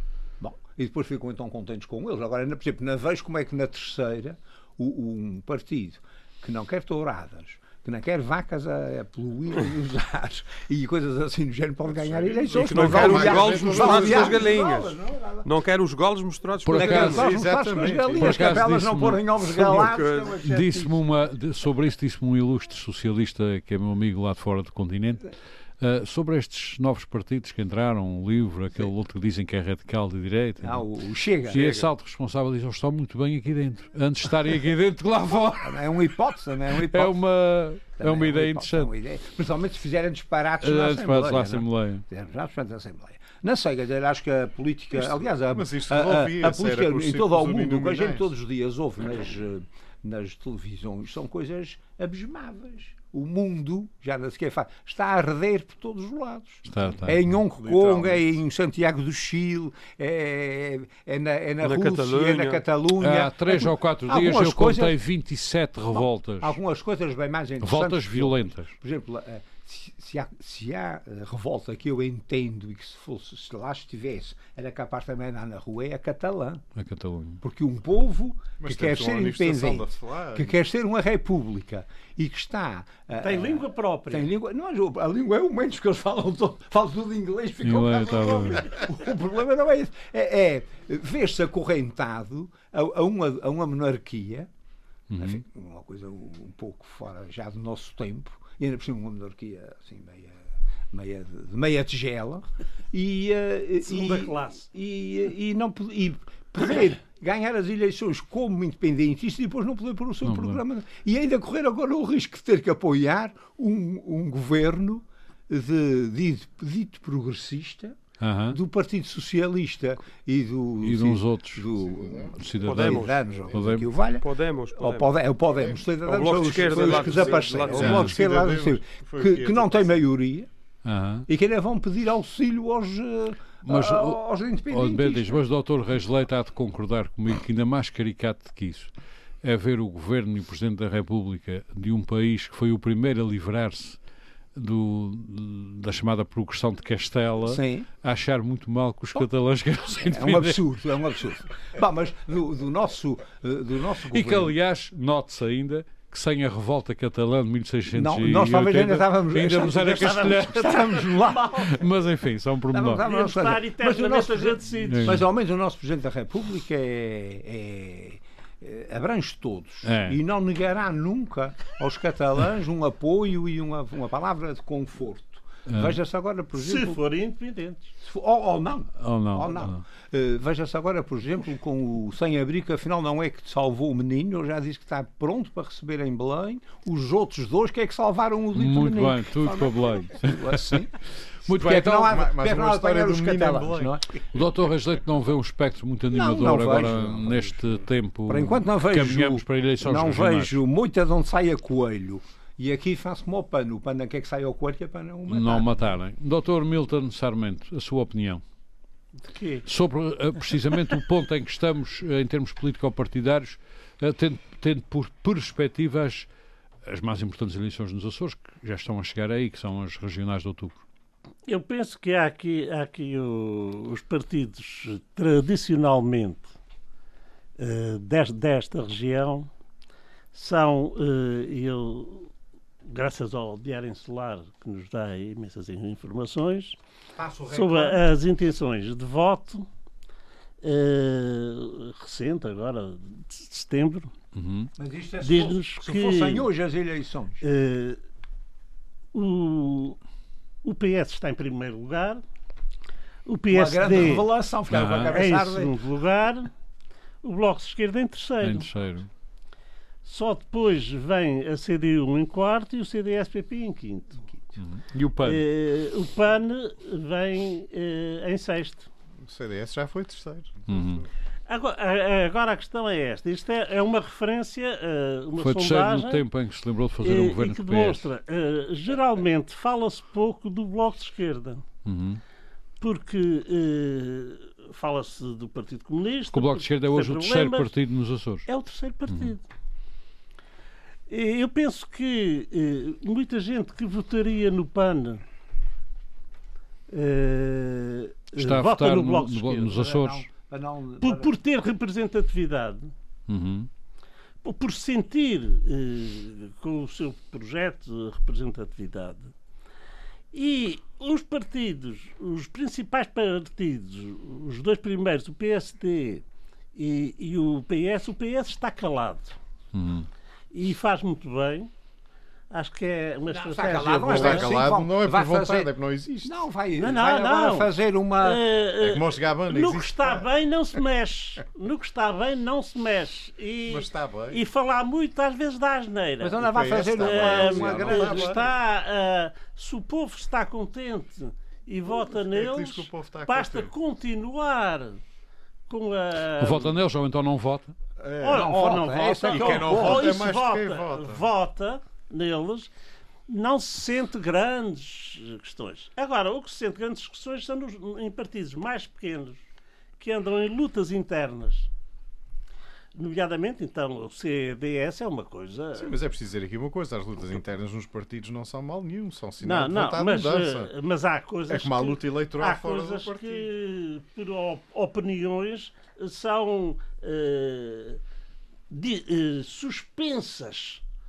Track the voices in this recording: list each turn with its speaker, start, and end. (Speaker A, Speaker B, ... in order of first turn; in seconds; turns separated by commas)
Speaker A: 0.4-15.5, Speaker B: 11.9-14.5, Speaker C: 12.5-17.3, Speaker D: 16.7-17.3, Speaker A: 16.7-21.0, Speaker B: 16.9-18.7, Speaker D: 18.1-19.9, Speaker C: 19.5-20.4, Speaker D: 20.4-30.9, Speaker A: 30.6-31.7, Speaker D: 31.5-35.8, Speaker C: 31.5-31.9, Speaker A: 35.6-37.2, Speaker D: 36.7-38.9, Speaker A: 38.0-65.0, Speaker D: 40.6-42.0, Speaker B: 44.9-48.3, Speaker D: 56.7-57.2, Speaker B: 57.5-58.4, Speaker C: 61.6-62.6, Speaker D: 63.0-66.6, Speaker A: 65.9-76.6, Speaker D: 67.6-68.7, Speaker D: 76.8-77.4, Speaker A: 77.4-94.5, Speaker B: 78.6-80.6, Speaker E: 83.2-84.3, Speaker D: 87.6-88.7, Speaker D: 95.1-95.4, Speaker A: 95.2-100.4, Speaker A: 100.9-118.0, Speaker E: 103.8-104.7, Speaker D: 110.2-110.6, Speaker D: 118.2-118.6, Speaker A: 118.5-130.5, Speaker D: 120.8-121.7, Speaker B: 121.8-122.4, Speaker D: 122.3-123.9, Speaker C: 122.7-123.2, Speaker C: 124.2-125.1, Speaker B: 125.5-130.0, Speaker C: 126.0-128.1, Speaker D: 127.7-128.2, Speaker D: 130.8-131.3, Speaker A: 131.3-135.4, Speaker D: 133.7-138.9, Speaker D: 139.4-144.0, Speaker D: 144.6-150.6, Speaker A: 147.4-147.9, Speaker A: 150.1-154.5, Speaker D: 154.1-163.0, Speaker A: 157.9-161.8, Speaker A: 162.7-177.0, Speaker E: 163.0-165.2, Speaker D: 164.8-165.3, Speaker D: 169.8-170.2, Speaker D: 175.7-176.0, Speaker E: 176.5-177.9, Speaker A: 178.0-190.9, Speaker D: 179.0-179.8, Speaker D: 188.5-190.9, Speaker D: 191.4-192.2, Speaker A: 191.5-194.1, Speaker B: 192.0-194.0, Speaker D: 194.3-200.6, Speaker A: 196.1-197.6, Speaker A: 198.3-205.8, Speaker D: 205.3-208.4, Speaker E: 209.2-209.7, Speaker D: 209.7-216.3, Speaker D: 216.8-220.8, Speaker E: 221.5-226.5, Speaker E: 227.6-229.5, Speaker E: 230.3-232.3, Speaker E: 232.8-236.8, Speaker A: 237.2-238.0, Speaker E: 237.5-239.7, Speaker E: 240.6-244.1, Speaker D: 244.3-244.7, Speaker A: 244.8-247.4, Speaker E: 245.2-246.5, Speaker E: 247.4-248.0, Speaker E: 249.1-250.0, Speaker E: 250.6-252.2, Speaker E: 253.3-254.3, Speaker A: 253.5-255.8, Speaker D: 254.7-255.2, Speaker E: 255.0-256.5, Speaker E: 257.2-258.7, Speaker D: 258.4-259.1, Speaker E: 260.1-264.2, Speaker D: 264.6-265.4, Speaker E: 265.2-268.9, Speaker B: 269.2-271.1, Speaker D: 270.7-271.1, Speaker E: 271.5-276.2, Speaker D: 275.4-278.1, Speaker E: 277.0-281.6, Speaker D: 281.9-282.2, Speaker E: 282.8-287.7, Speaker D: 286.3-288.5, Speaker E: 288.5-289.4, Speaker D: 289.1-289.3, Speaker E: 291.1-295.2, Speaker E: 296.9-299.7, Speaker D: 298.4-300.3, Speaker A: 299.6-301.3, Speaker E: 301.0-302.9, Speaker D: 303.3-303.7, Speaker E: 304.4-309.3, Speaker E: 310.3-316.2, Speaker E: 316.8-319.4, Speaker D: 319.7-320.1, Speaker E: 320.5-321.7, Speaker E: 322.5-324.6, Speaker A: 323.3-325.7, Speaker B: 324.1-326.4, Speaker A: 326.2-328.4, Speaker E: 326.8-345.0, Speaker B: 328.8-330.3, Speaker B: 333.7-334.4, Speaker A: 336.2-338.4, Speaker B: 336.4-338.5, Speaker B: 341.9-343.7, Speaker E: 345.7-346.8, Speaker D: 346.4-347.8, Speaker B: 348.0-348.6, Speaker E: 348.2-352.7, Speaker A: 348.3-350.2, Speaker B: 349.3-351.3, Speaker E: 353.3-359.4, Speaker E: 360.0-361.7, Speaker E: 362.9-366.0, Speaker B: 365.8-370.7, Speaker E: 369.4-378.0, Speaker B: 371.5-373.5, Speaker E: 378.7-380.8